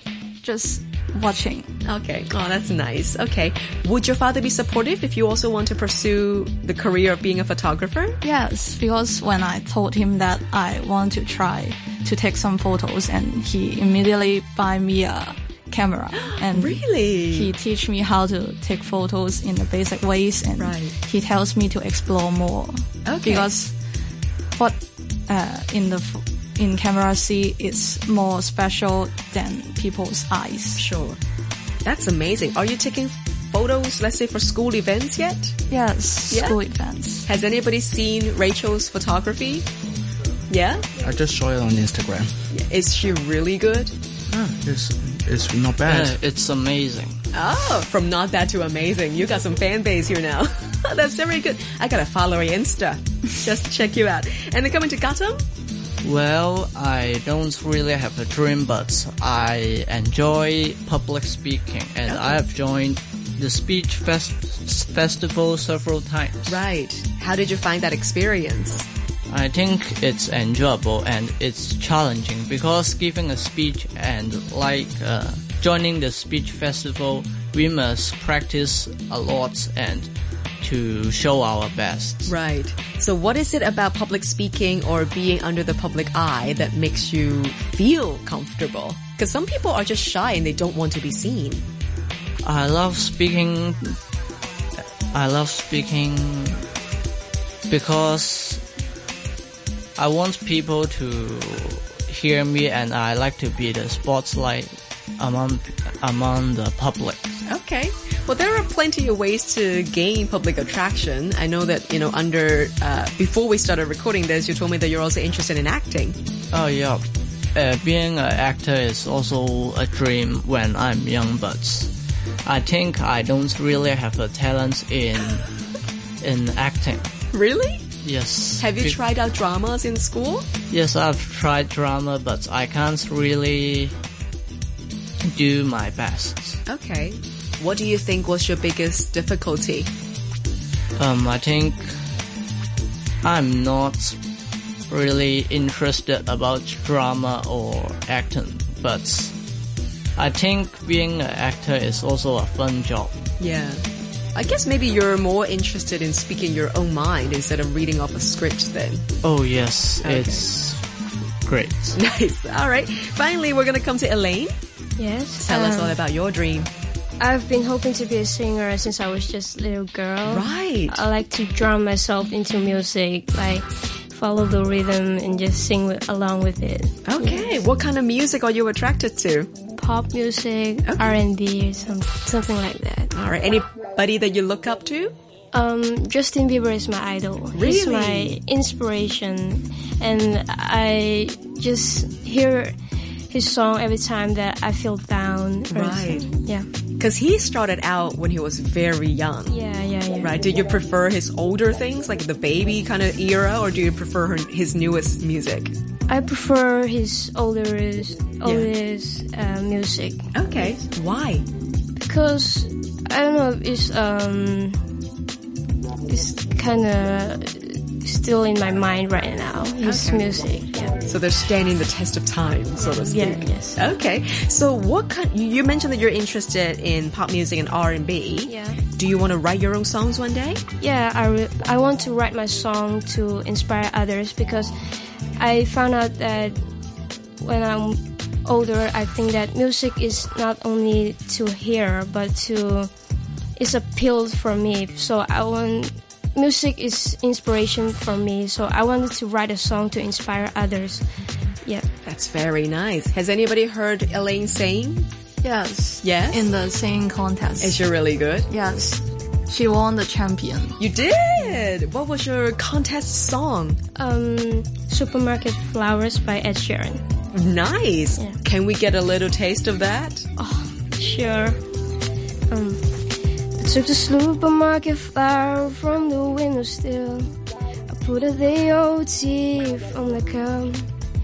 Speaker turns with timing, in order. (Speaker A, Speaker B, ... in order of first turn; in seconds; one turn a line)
Speaker A: 0.4-1.7
Speaker B: 1.9-8.2
Speaker A: 8.2-23.7
Speaker B: 16.2-17.5
Speaker B: 20.6-20.9
Speaker B: 23.1-23.5
Speaker A: 24.6-30.9
Speaker B: 30.8-31.2
Speaker B: 31.9-35.5
Speaker A: 35.7-37.3
Speaker B: 36.3-36.6
Speaker B: 37.2-39.7
Speaker B: 40.5-40.9
Speaker C: 41.0-42.3
Speaker B: 42.5-43.9
Speaker C: 44.3-46.2
Speaker D: 45.9-47.2
Speaker B: 47.3-55.4
Speaker D: 56.0-66.6
Speaker B: 62.1-62.4
Speaker B: 66.5-68.9
Speaker D: 69.3-80.1
Speaker D: 80.6-82.3
Speaker B: 82.3-91.6
Speaker D: 92.4-94.0
Speaker D: 95.1-96.7
Speaker D: 97.7-98.6
Speaker D: 100.0-107.4
Speaker B: 107.5-116.2
Speaker D: 116.5-121.9
Speaker D: 122.5-125.5
Speaker D: 126.2-127.1
Speaker B: 127.3-127.8
Speaker D: 128.0-129.0
Speaker B: 128.6-130.5
Speaker D: 130.7-133.9
Speaker D: 135.2-136.6
Speaker B: 136.7-139.9
Speaker D: 141.0-141.9
Speaker D: 143.2-144.2
Speaker D: 144.9-149.3
Speaker D: 150.2-153.2
Speaker B: 153.4-153.8
Speaker B: 154.3-159.1
Speaker D: 159.2-160.8
Speaker B: 160.0-160.5
Speaker D: 161.4-162.0
Speaker B: 161.9-164.5
Speaker E: 165.0-166.0
Speaker B: 165.4-166.7
Speaker E: 167.2-177.6
Speaker B: 170.2-171.0
Speaker B: 177.1-179.5
Speaker E: 179.8-183.2
Speaker B: 180.8-181.1
Speaker B: 183.1-185.2
Speaker E: 185.5-192.8
Speaker B: 187.5-188.4
Speaker E: 193.3-196.7
Speaker B: 195.7-196.3
Speaker B: 197.0-199.6
Speaker E: 199.5-200.4
Speaker B: 200.2-205.7
Speaker E: 206.1-210.3
Speaker B: 208.4-208.7
Speaker B: 210.3-211.4
Speaker E: 212.0-214.9
Speaker E: 216.1-221.0
Speaker B: 219.8-220.3
Speaker B: 221.1-230.6
Speaker E: 222.8-223.8
Speaker E: 228.4-228.8
Speaker E: 230.8-234.7
Speaker E: 235.4-236.6
Speaker E: 237.4-242.9
Speaker E: 243.6-251.1
Speaker B: 252.1-255.1
Speaker A: 255.4-257.8
Speaker B: 256.0-256.5
Speaker B: 257.6-258.5
Speaker A: 258.5-260.8
Speaker B: 260.8-263.8
Speaker E: 264.0-267.0
Speaker B: 267.3-270.3
Speaker E: 270.4-271.6
Speaker E: 272.5-277.3
Speaker E: 277.9-280.9